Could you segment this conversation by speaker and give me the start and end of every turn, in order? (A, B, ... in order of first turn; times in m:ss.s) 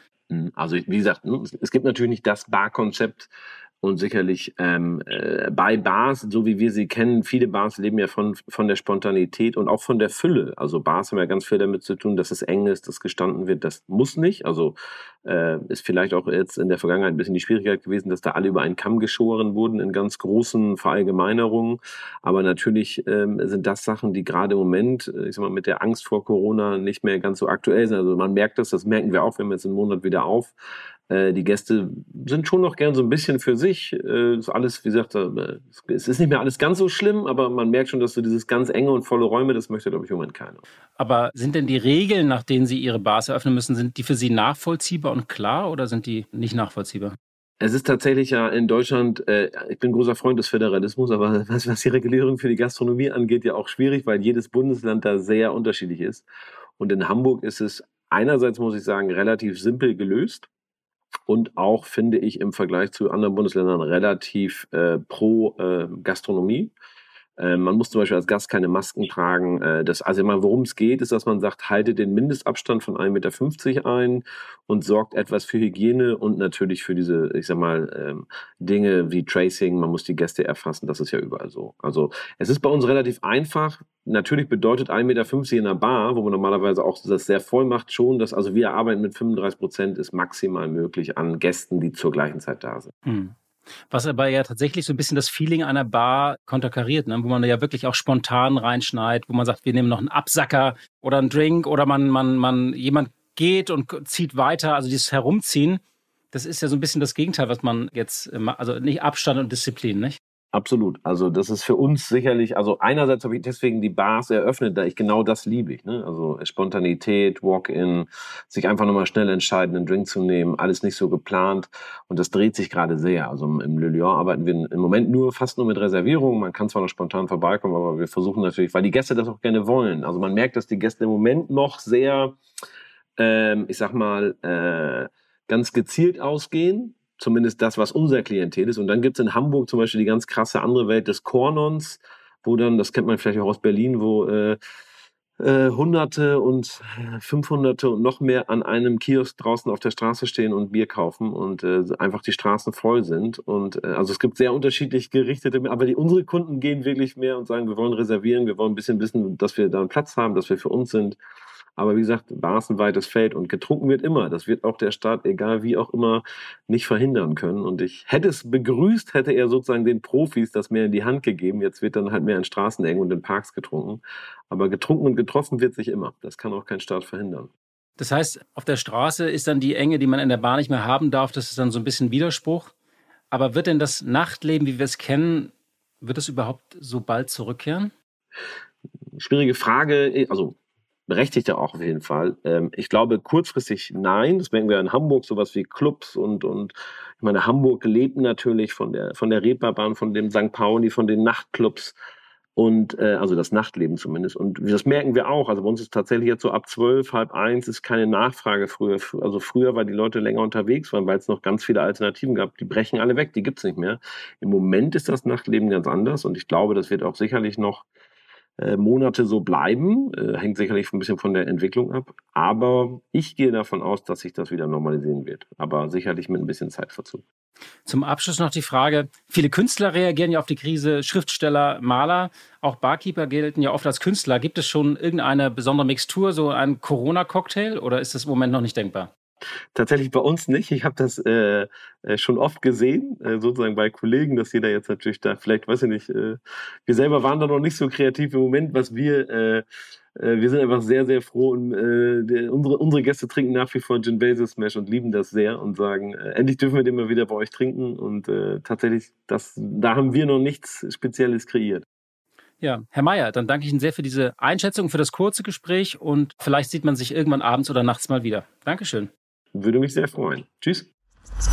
0:00.3-0:03.3 A
0:03.8-0:30.6 A
0:31.1-0:40.6 A
0:41.0-0:47.2 B
0:47.6-0:56.3 A
0:56.8-1:00.5 A
1:01.3-1:06.7 A
1:07.4-1:32.9 A
1:33.1-1:33.4 B
1:33.9-1:45.8 B
1:46.3-1:50.2 B
1:50.5-2:12.4 A
2:13.2-2:24.6 A
2:25.4-2:41.2 A
2:41.8-2:57.5 A
2:58.0-3:02.7 B
3:03.3-3:07.9 B
3:09.2-3:10.6 A
3:11.1-3:22.0 A
3:22.6-3:37.9 A
3:38.6-3:47.2 A
3:47.9-3:59.1 B
3:59.7-4:09.6 A
4:10.2-4:21.9 A
4:22.6-4:29.1 B
4:29.5-4:30.9 A